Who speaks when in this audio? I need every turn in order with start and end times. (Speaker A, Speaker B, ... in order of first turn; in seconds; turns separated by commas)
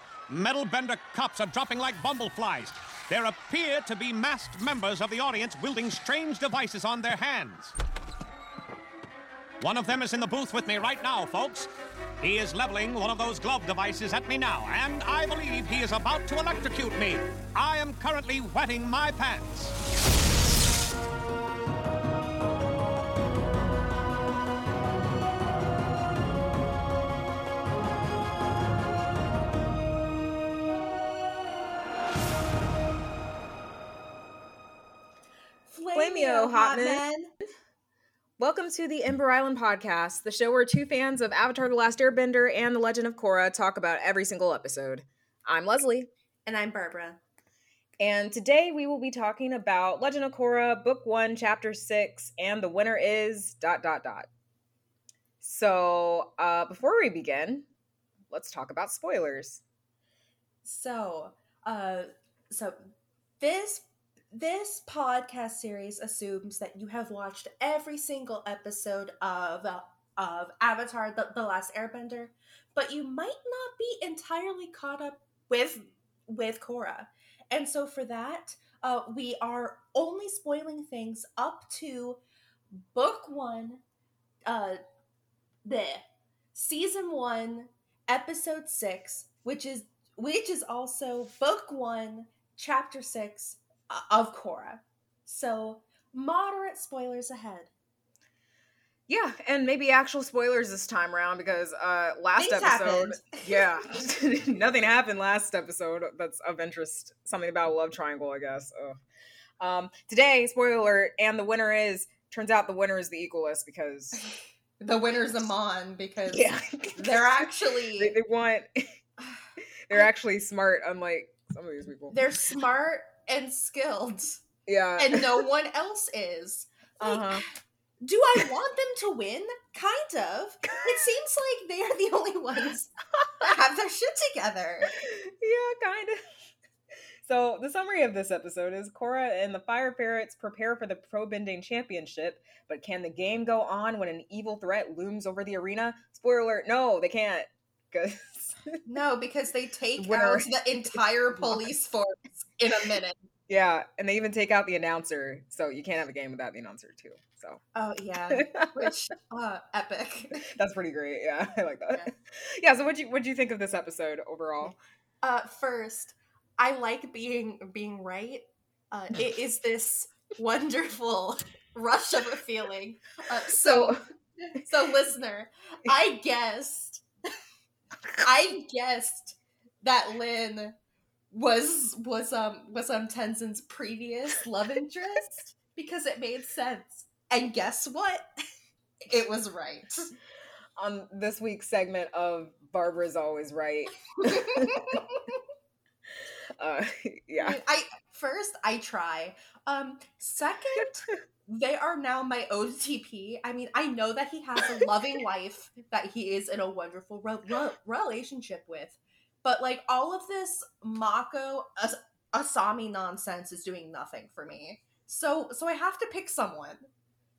Speaker A: 0.3-7.7, Speaker A: 9.6-11.7, Speaker A: 12.2-19.8, Speaker B: 35.7-37.3, Speaker C: 35.9-37.0, Speaker C: 38.4-46.1, Speaker B: 46.5-47.2, Speaker C: 48.0-54.3, Speaker C: 55.4-57.7, Speaker C: 58.3-59.6, Speaker B: 60.6-62.9, Speaker B: 63.4-82.2, Speaker B: 82.9-83.8, Speaker B: 84.5-84.8, Speaker B: 85.6-97.7, Speaker C: 99.1-109.0, Speaker B: 102.4-103.7, Speaker C: 109.6-114.2, Speaker B: 114.2-118.2, Speaker C: 116.3-118.8, Speaker B: 119.2-120.1, Speaker C: 119.9-122.2, Speaker B: 122.1-124.4, Speaker C: 124.7-125.4, Speaker B: 125.0-127.4, Speaker C: 127.0-127.4, Speaker B: 128.0-134.9, Speaker C: 130.7-131.1, Speaker C: 134.9-136.2, Speaker C: 137.2-148.8, Speaker B: 148.9-153.2, Speaker C: 150.0-151.7, Speaker C: 153.5-157.6, Speaker B: 157.7-160.4, Speaker C: 158.3-158.9, Speaker C: 160.4-164.8, Speaker B: 165.2-177.0, Speaker C: 173.5-174.0, Speaker B: 178.2-180.7, Speaker B: 181.3-188.2, Speaker B: 189.1-190.1, Speaker C: 190.8-195.0, Speaker B: 194.2-195.4, Speaker C: 196.6-197.6, Speaker B: 197.4-216.8